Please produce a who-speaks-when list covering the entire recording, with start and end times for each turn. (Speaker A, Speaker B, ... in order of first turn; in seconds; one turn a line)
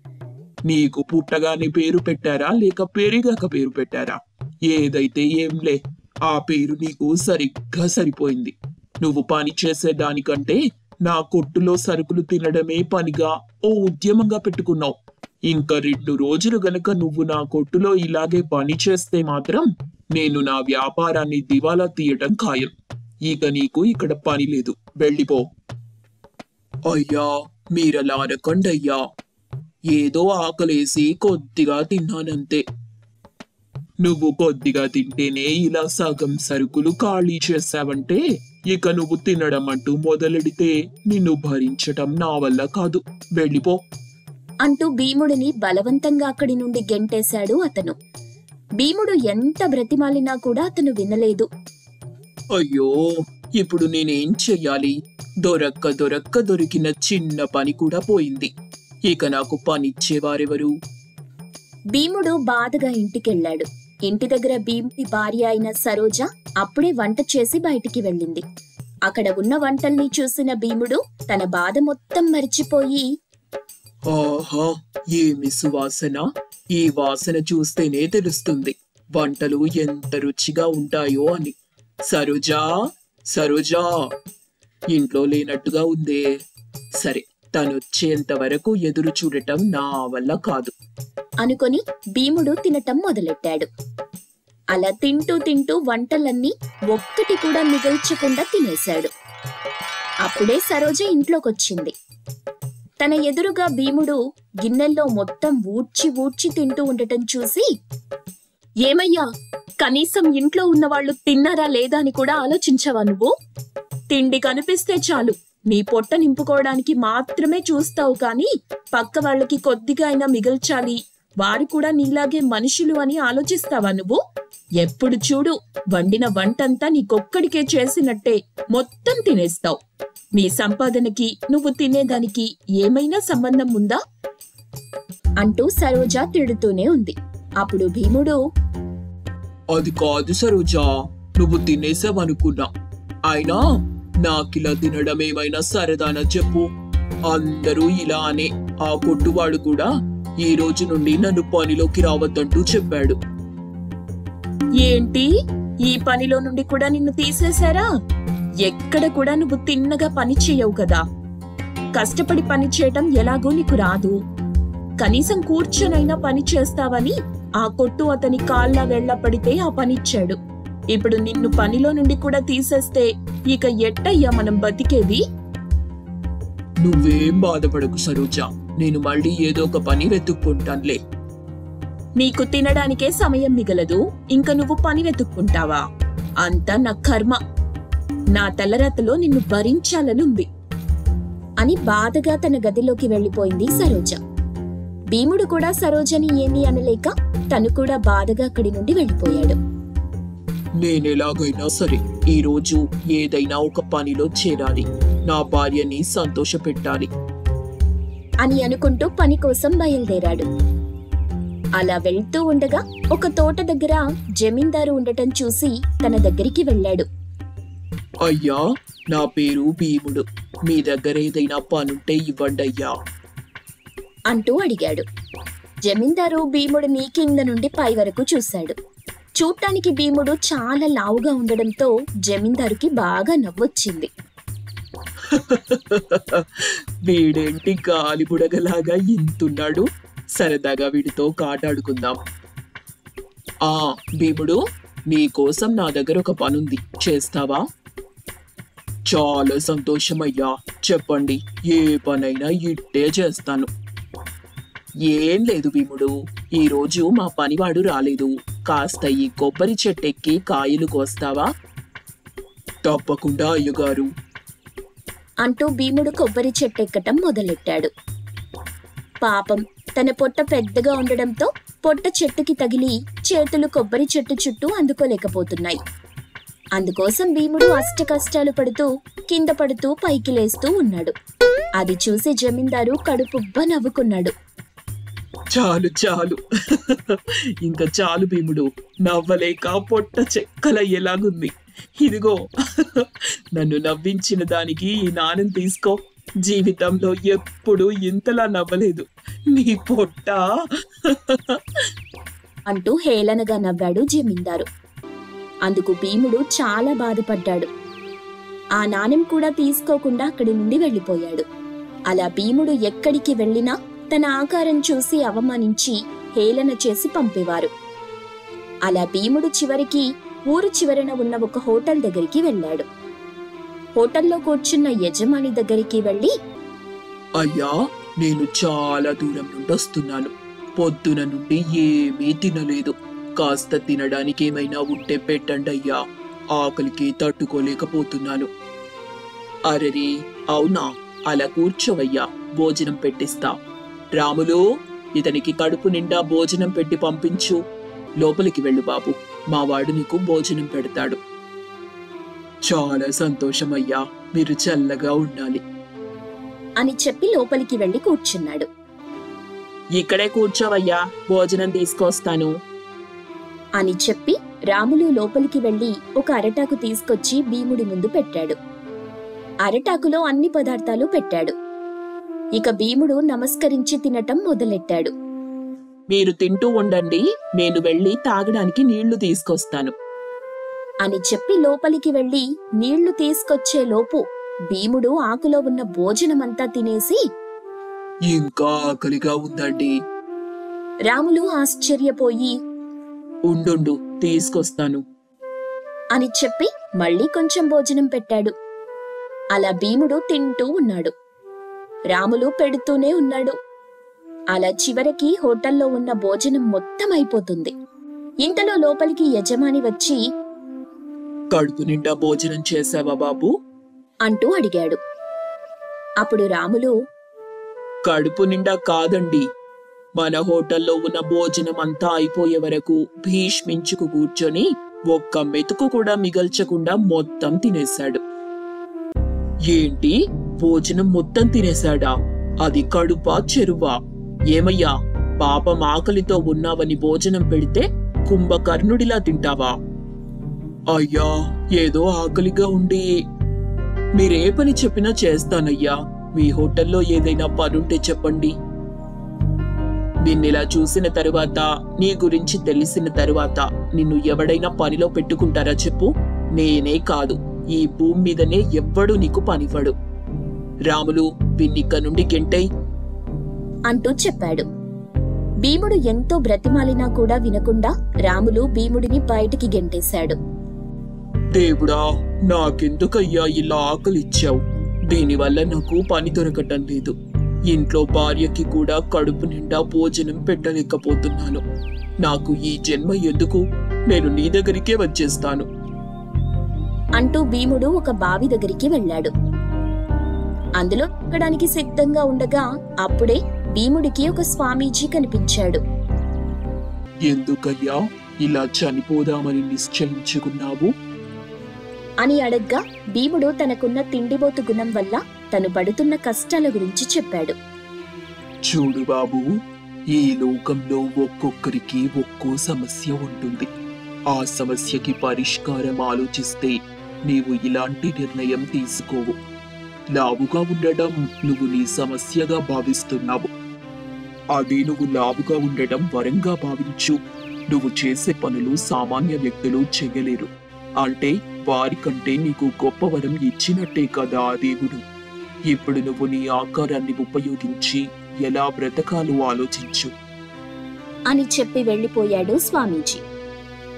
Speaker A: 0.7-22.7
Speaker A: 23.2-25.5
Speaker A: 26.9-29.0
Speaker A: 29.9-32.6
Speaker A: 34.0-43.8
Speaker B: 44.6-47.9
Speaker B: 48.8-51.5
Speaker A: 52.5-53.0
Speaker A: 53.6-58.5
Speaker A: 59.1-60.7
Speaker B: 61.9-68.4
Speaker B: 69.1-73.0
Speaker A: 74.1-81.5
Speaker A: 82.1-82.7
Speaker A: 83.3-83.9
Speaker A: 84.9-86.2
Speaker A: 87.0-90.7
Speaker B: 91.4-93.7
Speaker B: 94.7-99.1
Speaker B: 100.2-101.9
Speaker B: 103.0-107.7
Speaker B: 108.8-109.2
Speaker B: 109.8-113.3
Speaker B: 114.1-124.2
Speaker B: 124.8-129.8
Speaker B: 130.3-134.0
Speaker B: 135.4-138.3
Speaker A: 139.7-142.7
Speaker A: 143.3-143.6
Speaker A: 144.2-146.7
Speaker A: 147.3-149.9
Speaker A: 150.4-153.2
Speaker B: 154.8-155.3
Speaker B: 155.8-157.8
Speaker B: 158.6-161.0
Speaker B: 161.9-164.1
Speaker B: 165.0-170.4
Speaker B: 170.9-175.2
Speaker A: 176.8-181.0
Speaker B: 182.2-185.8
Speaker B: 186.4-187.4
Speaker B: 188.3-190.5
Speaker B: 191.6-194.2
Speaker B: 195.1-199.6
Speaker A: 200.8-207.1
Speaker B: 208.4-210.5
Speaker B: 211.8-217.1
Speaker A: 218.2-222.9
Speaker B: 224.3-225.1
Speaker B: 225.8-228.8
Speaker B: 229.4-234.1
Speaker A: 235.3-242.2
Speaker A: 243.6-247.6
Speaker A: 249.1-253.7
Speaker A: 255.1-261.5
Speaker A: 262.8-264.1
Speaker B: 265.4-267.9
Speaker B: 269.2-275.8
Speaker B: 276.8-281.1
Speaker B: 281.8-284.3
Speaker A: 285.5-300.4
Speaker A: 301.1-301.6
Speaker B: 302.7-304.6
Speaker B: 305.6-307.7
Speaker B: 308.8-311.4
Speaker B: 312.1-317.7
Speaker B: 318.9-322.9
Speaker B: 323.9-326.3
Speaker A: 327.4-336.0
Speaker A: 336.5-338.5
Speaker A: 339.7-343.6
Speaker A: 344.1-344.6
Speaker A: 345.1-347.6
Speaker A: 348.2-351.2
Speaker A: 352.6-355.6
Speaker B: 356.8-358.7
Speaker A: 359.9-362.5
Speaker B: 363.8-368.6
Speaker B: 369.6-371.5
Speaker B: 372.6-375.1
Speaker A: 376.1-379.9
Speaker B: 381.0-387.2
Speaker A: 388.3-389.9
Speaker B: 391.1-392.5
Speaker A: 393.5-395.0
Speaker B: 396.1-398.5
Speaker B: 399.6-401.1
Speaker B: 402.1-403.5
Speaker B: 404.5-407.7
Speaker B: 408.4-410.2
Speaker A: 411.5-413.5
Speaker B: 414.2-415.0
Speaker B: 416.2-416.9
Speaker A: 418.0-419.4
Speaker A: 420.2-428.2
Speaker A: 429.7-434.0
Speaker A: 434.5-439.7
Speaker A: 440.9-443.1
Speaker A: 444.1-448.5
Speaker A: 450.2-459.9
Speaker A: 460.9-462.6
Speaker B: 463.9-464.7
Speaker B: 465.6-470.4
Speaker A: 471.5-477.1
Speaker A: 477.7-481.6
Speaker A: 482.2-485.7
Speaker B: 487.2-489.3
Speaker B: 490.8-495.8
Speaker A: 497.2-500.9
Speaker B: 502.2-507.5
Speaker A: 508.6-509.5
Speaker A: 510.1-513.7
Speaker A: 514.3-519.4
Speaker A: 520.1-523.5
Speaker A: 524.5-527.2
Speaker A: 527.7-535.0
Speaker A: 535.7-540.1
Speaker B: 541.3-543.2